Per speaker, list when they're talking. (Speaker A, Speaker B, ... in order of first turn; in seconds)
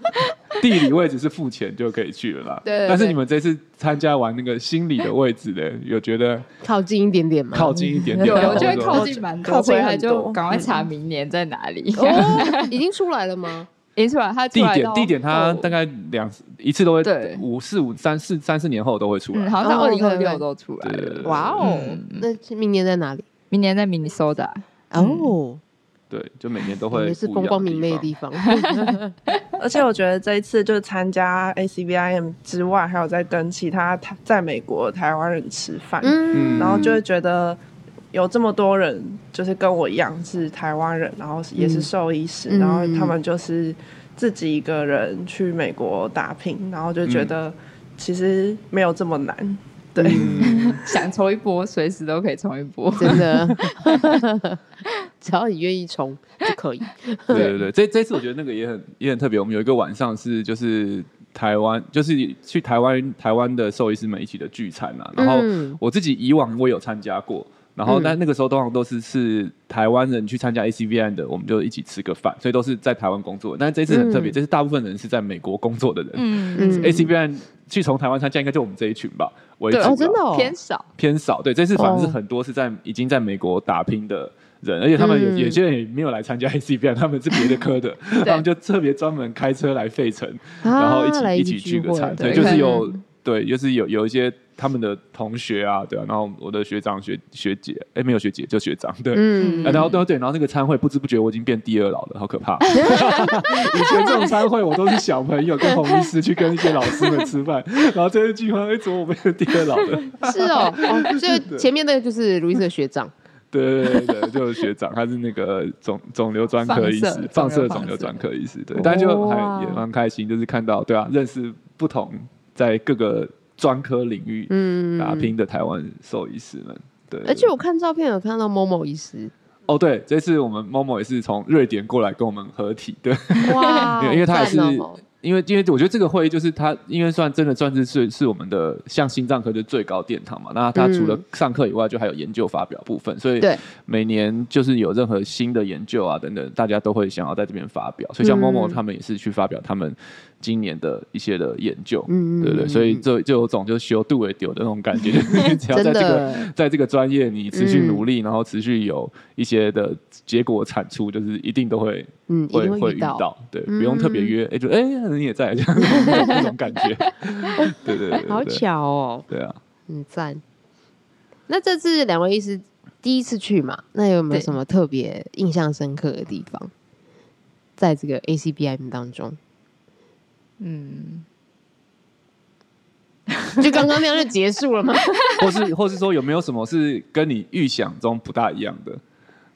Speaker A: 0.6-6.5, 7.5-9.1, 14.5-19.6, 20.8-21.8, 26.1-28.1, 36.3-37.0, 47.0-47.3, 50.1-50.8, 57.3-80.2, 81.0-111.7, 113.5-127.5, 129.7-168.6, 169.3-169.6, 185.4-189.0
Speaker B: 2.6-3.1, 6.6-8.7, 10.5-10.8, 11.9-13.7, 19.6-20.4, 21.2-23.2, 24.9-25.6, 26.9-29.1, 36.0-37.0, 41.6-41.9, 42.5-43.2, 50.0-50.4, 53.0-54.6, 55.2-57.5, 65.2-65.8, 67.8-68.1, 73.9-74.4, 76.6-77.1, 79.8-80.5, 81.8-82.2, 85.0-85.6, 90.6-92.9, 99.1-99.9, 102.8-103.3, 110.2-113.1, 118.7-119.8, 124.5-125.3, 127.2-129.3, 133.4-135.0, 140.7-141.2, 148.2-148.8, 152.1-153.0, 155.7-156.5, 157.5-158.0, 162.3-164.3, 165.9-166.4, 168.2-169.2, 169.9-170.4, 171.5-176.7, 177.8-179.4, 183.6-185.2
Speaker C: 2.7-3.0, 8.2-12.7, 13.9-15.7, 17.0-17.4, 19.3-22.2, 23.5-25.3, 28.5-29.4, 50.3-54.1, 76.1-77.0, 79.7-80.8, 92.2-92.9, 99.4-100.0, 102.8-104.2, 106.9-107.2, 116.6-118.2, 180.6-181.2
Speaker D: 8.5-10.4, 29.6-37.6, 38.1-50.7